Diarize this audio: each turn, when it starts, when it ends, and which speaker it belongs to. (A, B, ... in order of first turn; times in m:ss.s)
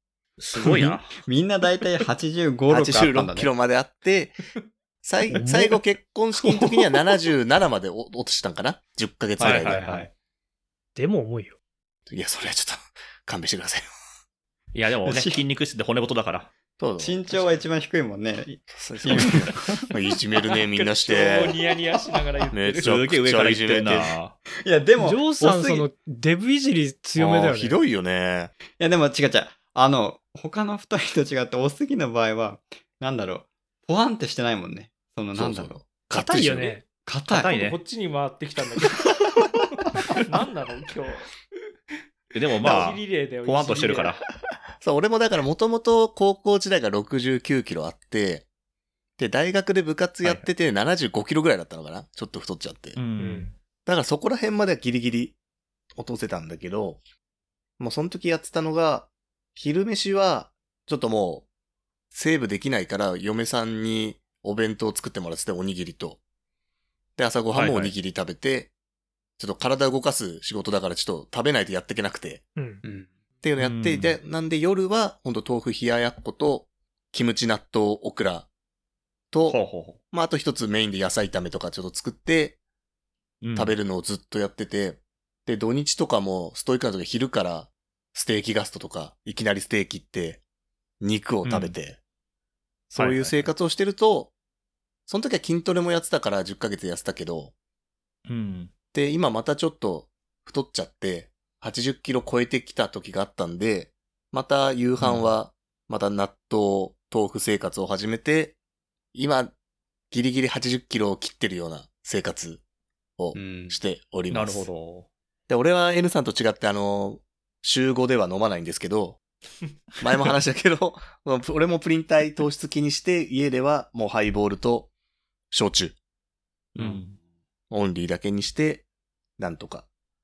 0:00.4-0:01.2 A
0:00.6-0:03.5 B
0:02.7-0:04.4 C
0:05.0-0:09.9 C
0:05.3-0:05.6 B
0:06.4-0:07.0 B
0:09.4-0:10.1 A
0:09.4-0:10.1 B
0:10.9-0:11.5 D
0:12.1-0:13.9 C
0:14.7-0:16.5 A
0:15.0-0:15.4 B
0:16.8-0:17.4 C
0:17.0-0:19.8 B
0:18.7-0:21.5 C
0:20.4-0:22.9 E
0:22.5-0:24.2 C
0:22.8-0:24.4 A
0:24.6-0:25.2 B
0:25.0-0:27.8 D
0:25.4-0:25.9 A
0:27.2-0:28.5 C
0:28.8-0:35.8 B
0:35.3-0:36.8 C
0:36.1-0:36.8 D
0:37.0-0:37.5 B
0:37.3-0:37.8 A
0:37.3-0:41.3 E
0:42.3-0:44.2 A
0:42.6-0:44.2 E
0:44.8-0:48.4 C
0:49.2-0:53.0 C
0:50.2-0:50.5 A
0:52.9-0:53.5 A
0:53.2-0:53.5 D
0:53.8-0:55.4 C
0:56.0-0:57.0 C
0:57.8-1:01.4 C
1:02.1-1:06.2 C
1:07.2-1:08.7 C
1:07.5-1:07.9 A
1:09.4-1:12.4 C
1:12.6-1:12.8 D
1:12.8-1:13.1 B
1:13.4-1:18.5 C
1:13.6-1:14.2 A
1:19.3-1:22.6 C
1:19.5-1:20.0 A
1:23.4-1:23.8 A
1:23.5-1:30.4 C
1:31.0-1:32.0 C
1:31.4-1:31.8 A
1:32.9-1:34.3 C
1:32.9-1:33.5 A
1:35.1-1:37.5 C
1:38.3-1:38.7 A
1:38.9-1:48.6 C
1:45.0-1:45.3 A
1:49.1-1:49.5 C
1:50.1-1:52.6 C
1:53.2-1:54.7 C
1:53.3-1:53.8 B
1:54.3-1:55.1 A
1:55.5-1:59.2 C
2:00.0-2:04.9 C
2:05.5-2:06.0 C
2:06.7-2:07.2 A
2:07.7-2:08.8 C
2:09.4-2:09.8 C